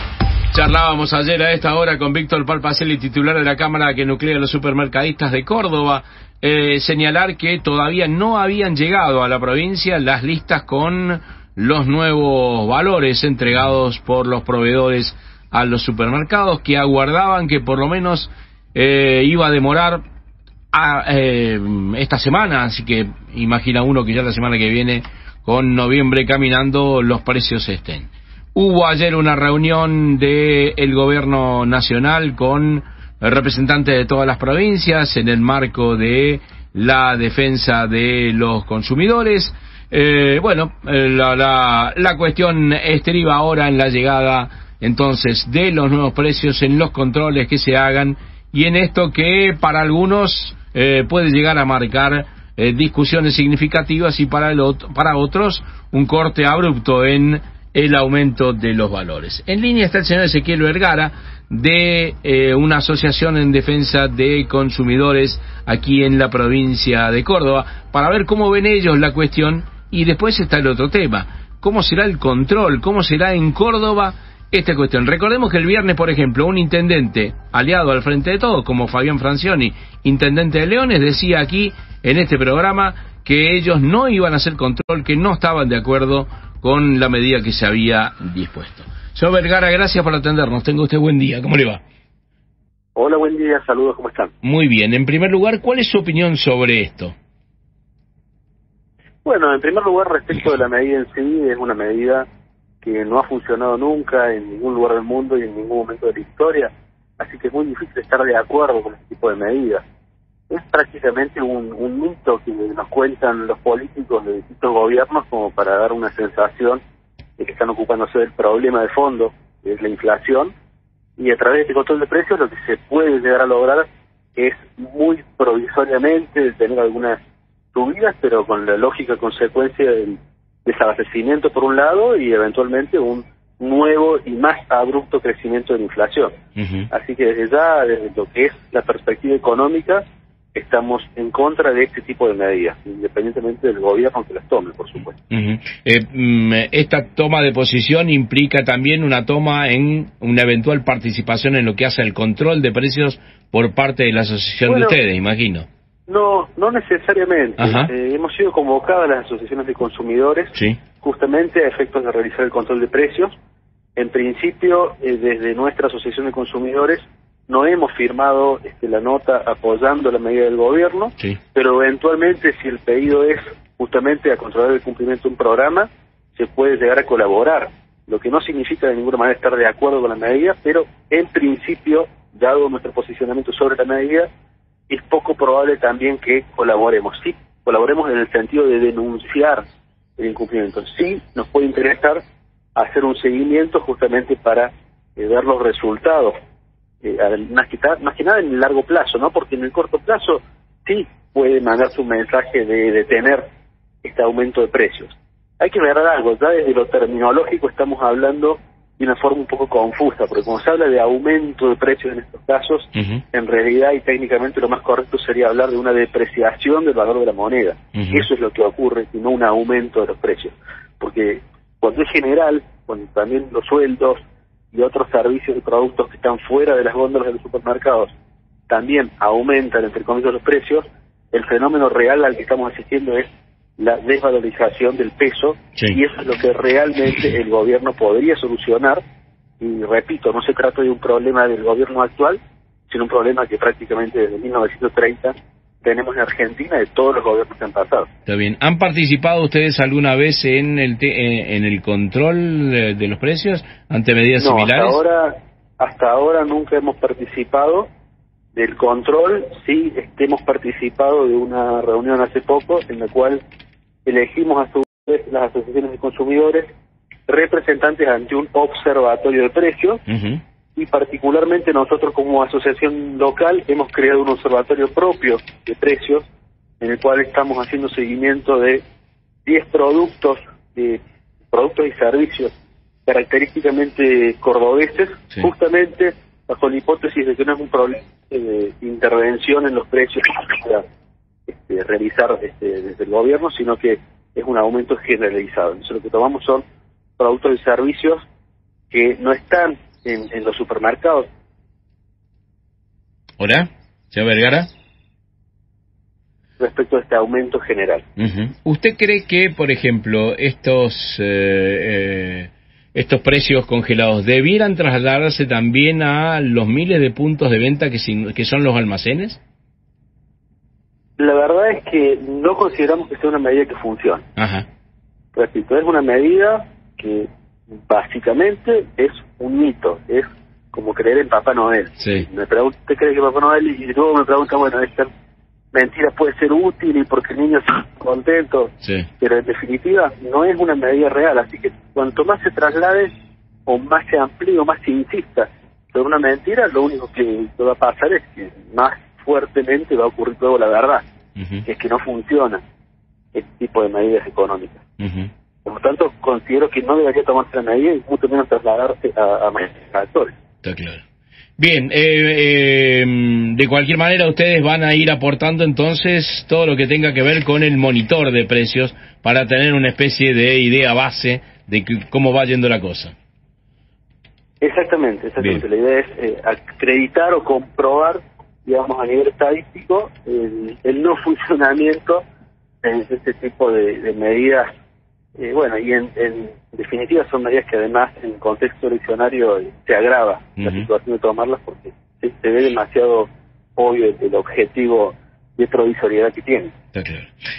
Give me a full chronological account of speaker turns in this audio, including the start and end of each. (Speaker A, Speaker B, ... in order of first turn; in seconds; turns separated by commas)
Speaker A: 0.5-20.0, Speaker A: 20.7-91.8, Speaker B: 93.0-94.3, Speaker A: 94.4-97.1, Speaker B: 99.2-102.3, Speaker B: 102.8-109.8, Speaker B: 110.5-116.8, Speaker B: 117.4-120.5, Speaker B: 121.2-127.2, Speaker B: 127.7-136.3, Speaker A: 136.6-136.9, Speaker B: 136.9-145.2, Speaker A: 145.3-155.7, Speaker B: 154.7-155.0, Speaker B: 156.1-163.3, Speaker A: 157.6-157.9, Speaker A: 160.6-160.8, Speaker B: 164.0-184.3, Speaker B: 184.9-189.7, Speaker B: 190.2-192.2, Speaker B: 192.8-196.3, Speaker B: 197.0-203.4, Speaker B: 204.0-224.2, Speaker A: 212.9-213.2, Speaker A: 218.0-218.3, Speaker B: 224.7-228.1, Speaker B: 228.7-239.0, Speaker B: 239.6-248.1, Speaker A: 248.3-255.0, Speaker B: 254.4-257.9, Speaker B: 258.6-263.4, Speaker B: 264.1-266.7, Speaker B: 267.3-270.0, Speaker A: 270.1-270.4, Speaker B: 270.8-276.2, Speaker B: 276.8-278.8, Speaker B: 279.5-281.0, Speaker B: 281.5-282.5, Speaker B: 283.1-290.8, Speaker B: 291.5-296.6, Speaker B: 297.2-298.2, Speaker B: 298.9-301.3, Speaker A: 303.4-304.7, Speaker B: 306.6-308.1, Speaker A: 308.2-319.4, Speaker B: 321.2-324.2, Speaker A: 324.4-324.7, Speaker B: 325.4-327.3, Speaker B: 327.9-335.1, Speaker A: 332.0-332.3, Speaker B: 335.7-343.1, Speaker B: 343.7-351.1, Speaker A: 351.4-351.6, Speaker B: 351.6-352.6, Speaker B: 353.3-354.8, Speaker A: 355.0-355.3, Speaker B: 355.6-360.3, Speaker A: 360.6-361.0, Speaker A: 361.6-373.1, Speaker B: 374.6-382.2, Speaker B: 382.8-384.7, Speaker B: 385.4-396.7, Speaker A: 390.6-390.9, Speaker A: 396.9-397.3